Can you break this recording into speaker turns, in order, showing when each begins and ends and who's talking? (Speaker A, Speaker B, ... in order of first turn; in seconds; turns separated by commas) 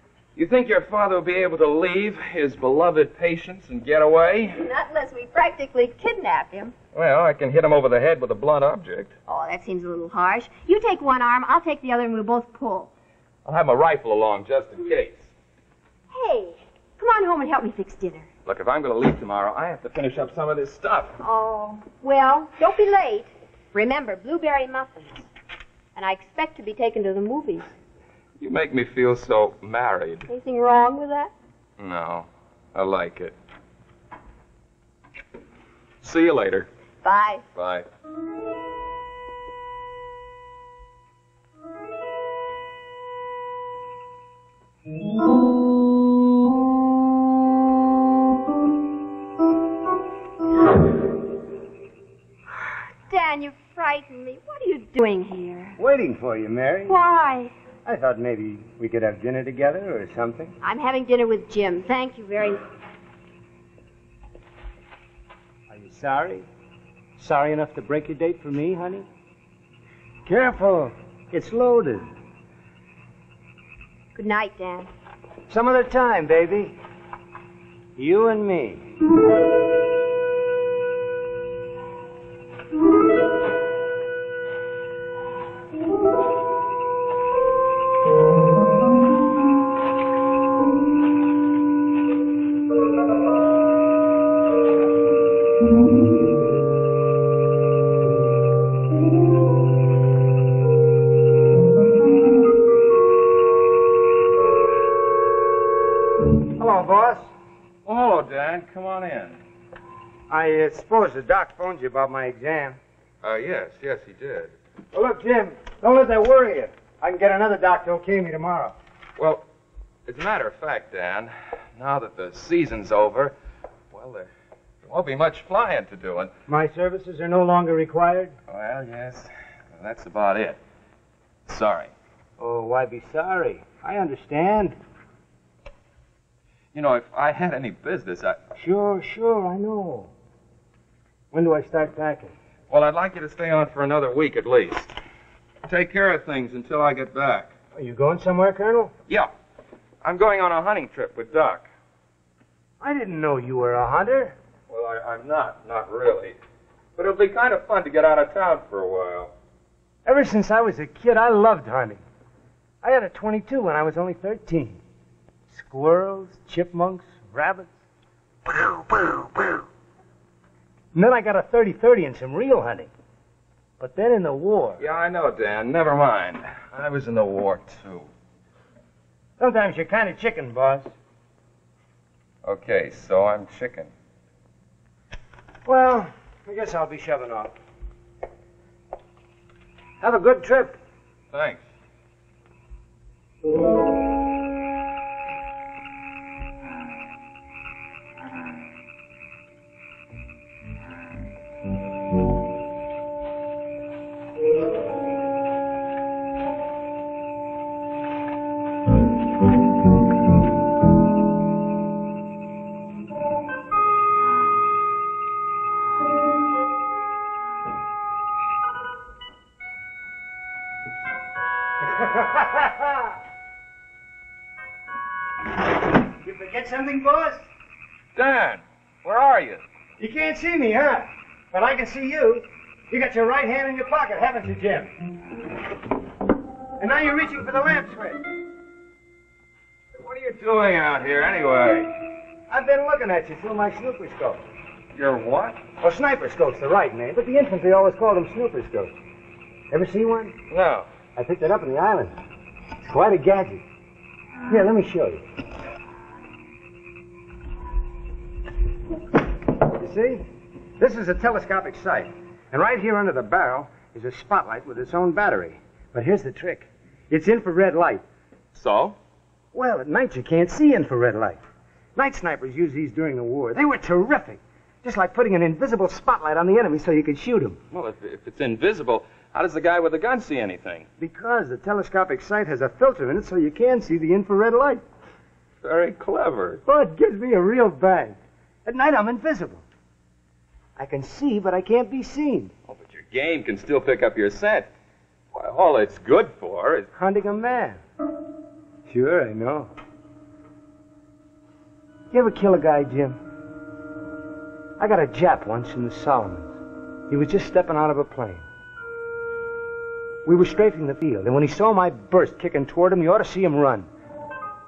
Speaker A: 0.3-4.6, Speaker B: 4.6-6.7, Speaker A: 6.9-9.1, Speaker B: 9.3-12.9, Speaker A: 13.4-15.3, Speaker B: 16.1-18.3, Speaker A: 18.4-21.1, Speaker B: 21.2-25.3, Speaker B: 25.9-27.7, Speaker A: 28.4-30.3, Speaker B: 30.3-31.3, Speaker A: 31.8-33.3, Speaker A: 36.0-36.7, Speaker B: 37.0-37.4, Speaker A: 37.5-37.9, Speaker B: 53.1-55.8, Speaker C: 55.8-56.9, Speaker B: 56.9-57.5, Speaker C: 57.8-60.5, Speaker B: 60.6-62.6, Speaker C: 65.7-66.5, Speaker C: 67.2-69.1, Speaker C: 70.2-72.1, Speaker B: 74.1-74.9, Speaker C: 75.5-76.7, Speaker C: 78.0-78.9, Speaker C: 106.6-107.3, Speaker A: 107.8-109.4, Speaker C: 110.3-112.8, Speaker A: 113.2-114.5, Speaker C: 114.9-118.7, Speaker A: 119.2-119.4, Speaker A: 120.1-123.3, Speaker A: 123.9-124.3, Speaker A: 124.8-126.3, Speaker C: 126.5-128.3, Speaker A: 128.5-130.6, Speaker A: 131.4-131.9, Speaker C: 132.4-134.8, Speaker A: 136.7-138.4, Speaker C: 138.6-140.1, Speaker C: 141.3-142.3, Speaker A: 142.7-144.9, Speaker A: 145.7-147.5, Speaker C: 147.7-148.9, Speaker A: 150.0-151.7, Speaker C: 152.8-154.3, Speaker A: 154.7-156.3, Speaker A: 157.0-159.3, Speaker C: 160.1-162.0, Speaker C: 162.8-164.8, Speaker C: 165.5-167.8, Speaker C: 168.5-169.6, Speaker C: 170.9-172.9, Speaker C: 173.8-174.8, Speaker A: 174.8-178.1, Speaker C: 179.4-180.9, Speaker A: 182.4-183.9, Speaker C: 185.7-187.5, Speaker C: 190.0-190.8, Speaker A: 191.3-191.6, Speaker C: 221.8-223.1, Speaker C: 226.2-227.5, Speaker A: 228.2-229.6, Speaker C: 230.0-234.9, Speaker C: 236.8-238.2, Speaker A: 239.9-241.9, Speaker C: 242.5-244.4, Speaker A: 244.9-245.6, Speaker C: 245.8-248.9, Speaker C: 249.7-250.3, Speaker A: 250.5-250.9, Speaker C: 251.2-252.1, Speaker C: 252.8-253.6, Speaker C: 254.5-255.2, Speaker C: 259.8-260.2, Speaker C: 260.8-268.0, Speaker A: 268.5-268.9, Speaker C: 269.5-271.4, Speaker C: 271.9-277.6, Speaker A: 277.7-280.9, Speaker C: 281.0-284.8, Speaker A: 285.6-286.6, Speaker C: 286.6-289.6, Speaker C: 290.8-292.5, Speaker A: 292.7-294.7, Speaker A: 295.3-296.9, Speaker C: 296.9-297.8, Speaker C: 298.9-299.7, Speaker C: 302.1-303.2, Speaker C: 304.8-306.6, Speaker C: 307.1-308.4, Speaker C: 310.2-313.9